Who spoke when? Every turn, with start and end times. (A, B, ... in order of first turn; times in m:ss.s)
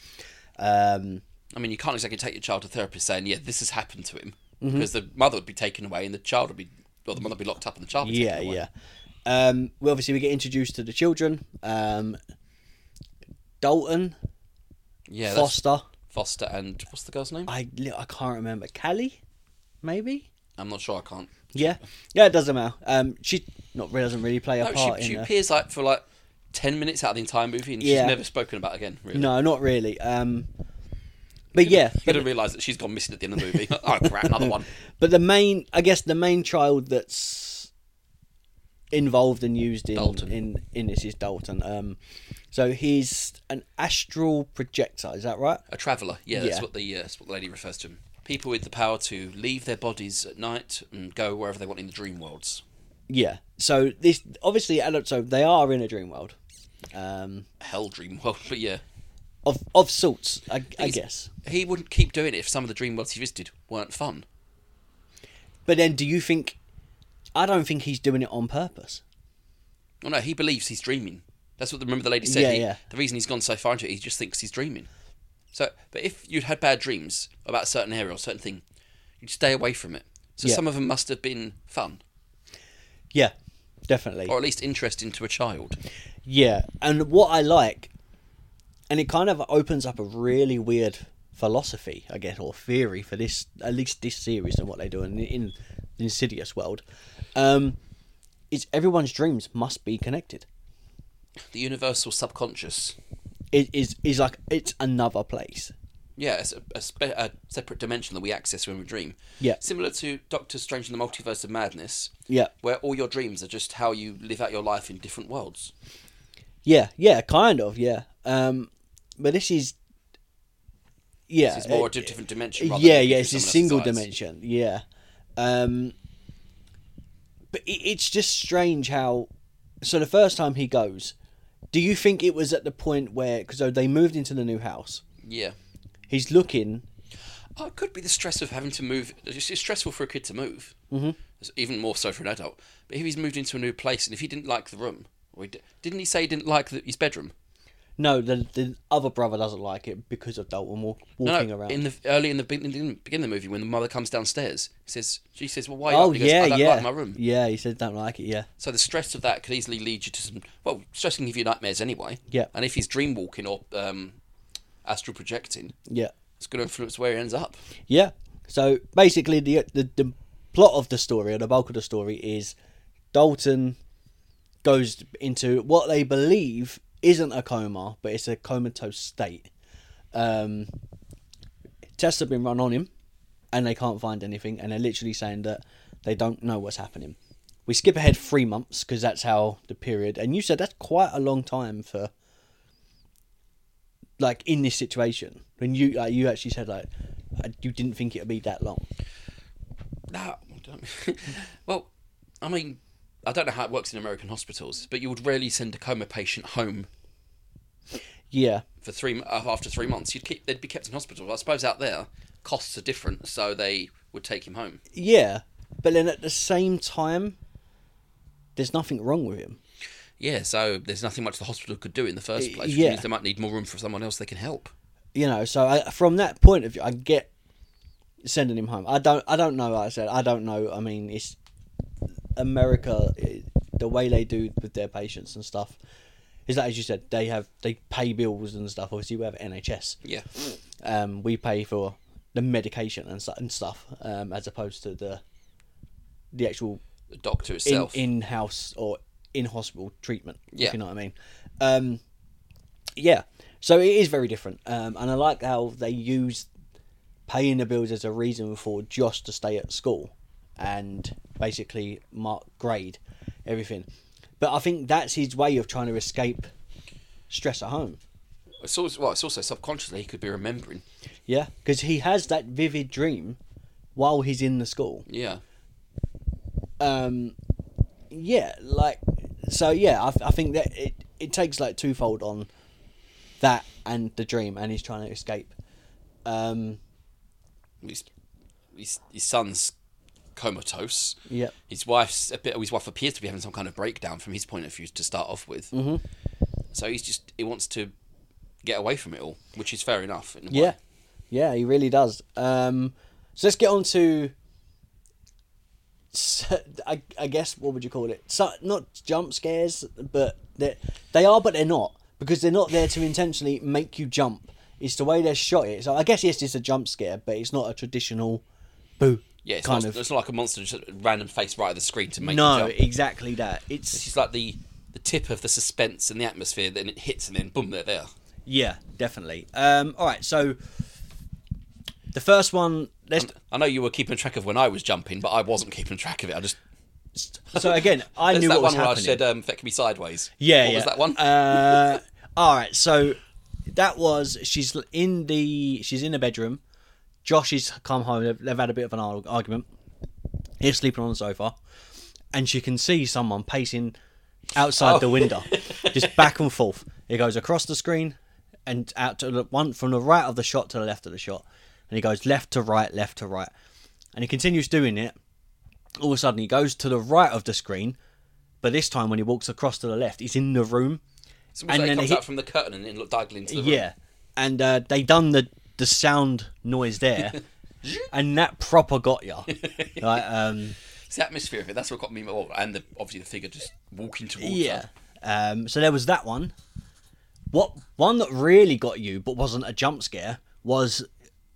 0:00.6-0:01.2 A
0:01.5-0:08.6 B
0:04.6-0:04.9 A
0:08.0-0:08.7 A
0:09.2-0:12.2 A
0:13.6-0:14.2 A
0:15.1-0:17.5 B
0:15.3-0:15.9 A
0:17.5-0:19.2 A
0:19.8-0:20.3 A
0:20.6-0:21.5 B
0:21.5-0:25.3 A
0:24.6-0:29.3 B
0:27.8-0:28.2 A
0:29.1-0:30.5 A
0:31.5-0:32.3 A
0:31.6-0:34.7 B
0:34.0-0:37.7 A
0:38.9-0:42.0 A
0:39.9-0:40.3 B
0:42.5-0:45.6 A
0:45.7-0:52.6 B
0:46.3-0:46.6 A
0:53.1-0:56.4 A
0:56.9-0:57.5 A
0:57.6-0:58.8 B
0:59.4-1:01.3 A
1:00.8-1:04.2 B
1:05.6-1:06.6 A
1:07.3-1:09.0 A
1:10.0-1:14.9 B
1:12.2-1:12.8 A
1:15.5-1:18.6 B
1:19.2-1:22.0 B
1:23.9-1:24.3 A
1:24.3-1:25.8 B
1:26.2-1:27.9 A
1:28.9-1:36.8 A
1:37.3-1:37.8 A
1:38.5-1:40.5 A
1:41.5-1:43.0 B
1:43.5-1:45.7 A
1:46.2-1:55.7 B
1:56.6-1:59.8 A
2:01.3-2:04.8 A
2:01.4-2:04.0 B
2:05.4-2:05.9 A
2:07.5-2:09.3 A
2:09.8-2:11.1 A
2:11.7-2:15.0 A
2:15.2-2:15.6 B
2:16.1-2:16.8 A
2:17.6-2:20.7 B
2:20.9-2:21.2 A
2:21.4-2:27.3 B
2:28.0-2:31.8 A
2:31.2-2:37.2 B
2:35.9-2:38.5 A
2:38.6-2:44.2 B
2:44.8-2:45.7 B
2:45.9-2:46.1 A
2:46.4-2:47.6 B
2:47.9-2:52.5 A
2:53.1-2:53.8 A
2:54.6-2:59.5 A
3:00.1-3:00.7 A
3:02.0-3:02.9 A
3:03.5-3:12.1 A
3:14.2-3:16.9 A
3:17.4-3:18.8 A
3:20.1-3:21.9 B
3:22.4-3:26.9 B
3:28.3-3:28.6 A
3:28.8-3:34.8 B
3:34.9-3:37.4 A
3:38.6-3:39.6 A
3:40.2-3:44.7 B
3:42.4-3:43.0 A
3:45.1-3:47.3 A
3:48.2-3:51.4 A
3:52.4-3:55.8 A
3:56.5-4:00.0 A
4:00.8-4:05.2 A
4:06.3-4:06.8 A
4:07.1-4:08.0 B
4:07.6-4:12.0 A
4:10.5-4:10.8 B
4:13.0-4:16.5 A
4:17.3-4:23.9 A
4:24.4-4:26.5 A
4:27.3-4:28.0 A
4:28.6-4:30.8 B
4:31.3-4:33.4 A
4:33.9-4:35.0 A
4:35.1-4:35.4 B
4:36.8-4:37.4 A
4:38.1-4:42.5 A
4:43.4-4:45.5 A
4:46.2-4:46.8 A
4:47.8-4:48.1 B
4:48.7-4:49.7 B
4:50.3-4:55.7 B
4:51.3-4:51.5 A
4:55.7-4:56.0 A
4:56.7-4:57.9 B
4:58.6-5:00.8 B
5:00.5-5:00.8 A
5:01.3-5:04.3 A
5:06.1-5:18.4 A
5:19.0-5:20.0 A
5:19.4-5:22.7 B
5:22.2-5:24.0 A
5:23.9-5:28.1 B
5:28.4-5:30.6 A
5:32.1-5:33.3 A
5:33.2-5:36.6 B
5:37.2-5:39.2 A
5:37.5-5:42.0 B
5:40.4-5:46.6 A
5:47.2-5:49.7 A
5:50.6-5:51.6 A
5:52.3-5:54.0 A
5:54.5-6:03.5 A
5:54.8-5:56.3 B
6:04.1-6:05.2 A
6:06.0-6:08.0 A
6:08.6-6:11.0 A
6:11.5-6:13.9 B
6:11.7-6:12.2 A
6:13.5-6:17.4 A
6:17.2-6:18.1 B
6:18.1-6:20.8 A
6:19.5-6:20.2 B
6:21.1-6:24.8 B
6:24.4-6:26.5 A
6:27.5-6:31.1 A